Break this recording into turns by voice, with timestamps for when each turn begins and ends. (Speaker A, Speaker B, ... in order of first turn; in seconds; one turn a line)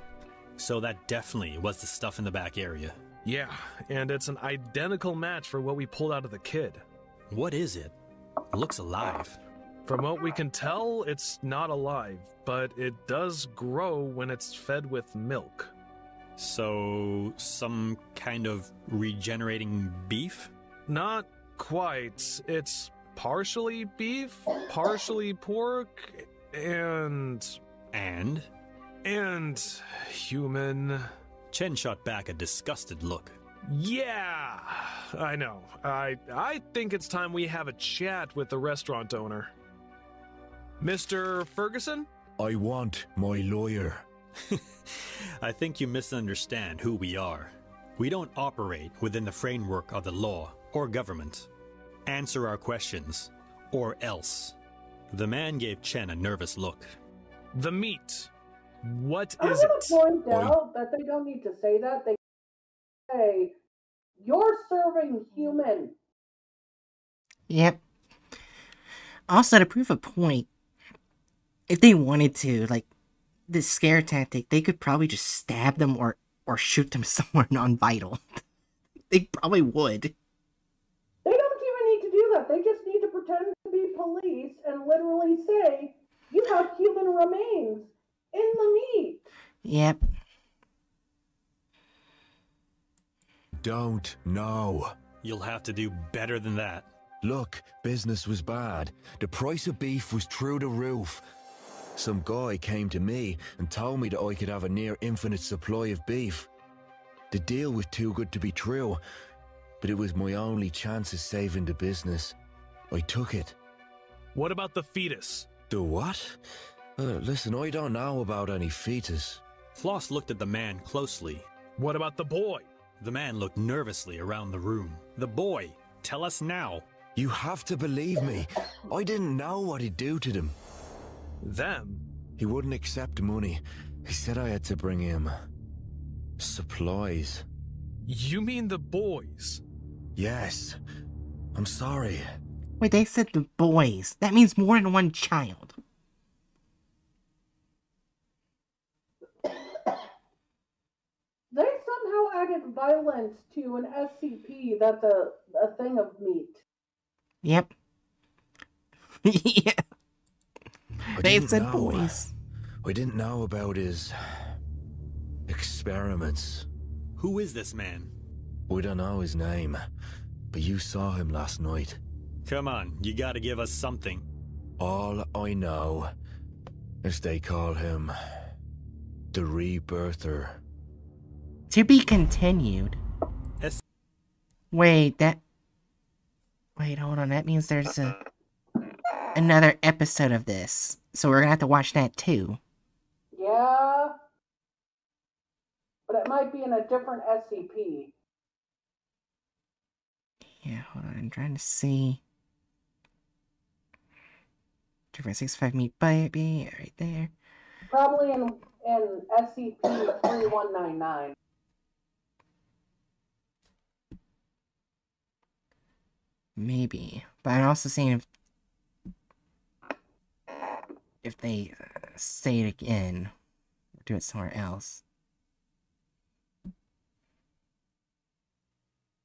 Speaker A: 0.6-3.0
Speaker B: 3.2-6.8
Speaker A: 7.3-7.9
Speaker A: 8.5-9.4
Speaker B: 9.9-15.7
Speaker A: 16.4-20.5
Speaker B: 20.9-27.6
Speaker A: 27.9-28.5
Speaker B: 29.0-31.1
Speaker A: 31.5-33.4
Speaker B: 33.7-39.5
Speaker B: 40.8-42.1
Speaker C: 42.4-44.0
Speaker A: 44.5-51.5
Speaker A: 52.1-54.6
Speaker A: 55.1-57.0
Speaker B: 57.5-58.3
Speaker B: 58.8-60.0
Speaker D: 59.4-62.2
Speaker C: 60.3-60.6
Speaker D: 63.1-63.5
Speaker D: 64.2-66.0
Speaker E: 67.5-67.8
Speaker E: 69.3-70.5
Speaker E: 71.7-72.9
Speaker E: 73.5-78.2
Speaker E: 79.1-80.1
Speaker D: 81.2-89.3
Speaker E: 89.6-90.0
Speaker C: 93.6-94.9
Speaker A: 95.2-96.9
Speaker C: 97.2-101.2
Speaker C: 102.0-106.5
Speaker C: 107.3-109.0
Speaker C: 109.8-112.4
Speaker C: 112.9-113.6
Speaker B: 114.3-115.5
Speaker C: 115.7-116.4
Speaker C: 117.0-119.4
Speaker A: 119.8-121.5
Speaker B: 121.8-122.7
Speaker A: 123.0-126.8
Speaker C: 127.2-130.6
Speaker B: 131.4-132.0
Speaker C: 132.4-135.3
Speaker C: 136.4-137.4
Speaker B: 138.1-139.6
Speaker C: 140.2-140.8
Speaker C: 141.5-142.2
Speaker E: 142.8-145.8
Speaker D: 151.5-156.6
Speaker E: 157.4-157.7
Speaker E: 159.2-159.8
Speaker C: 161.2-162.2
Speaker E: 161.2-162.3
Speaker C: 162.8-164.5
Speaker C: 165.5-166.7
Speaker A: 167.2-168.1
Speaker C: 168.7-169.8
Speaker C: 170.5-172.0
Speaker A: 172.4-174.3
Speaker C: 174.8-176.1
Speaker C: 177.0-178.1
Speaker C: 179.3-180.6
Speaker E: 181.7-183.0
Speaker E: 184.7-185.4
Speaker E: 186.8-188.2
Speaker E: 189.3-192.6
Speaker D: 193.3-194.1
Speaker D: 196.1-198.1
Speaker E: 200.6-202.2
Speaker E: 205.1-207.3
Speaker D: 207.9-211.3
Speaker E: 216.6-218.3
Speaker E: 221.2-223.3
Speaker E: 224.0-225.0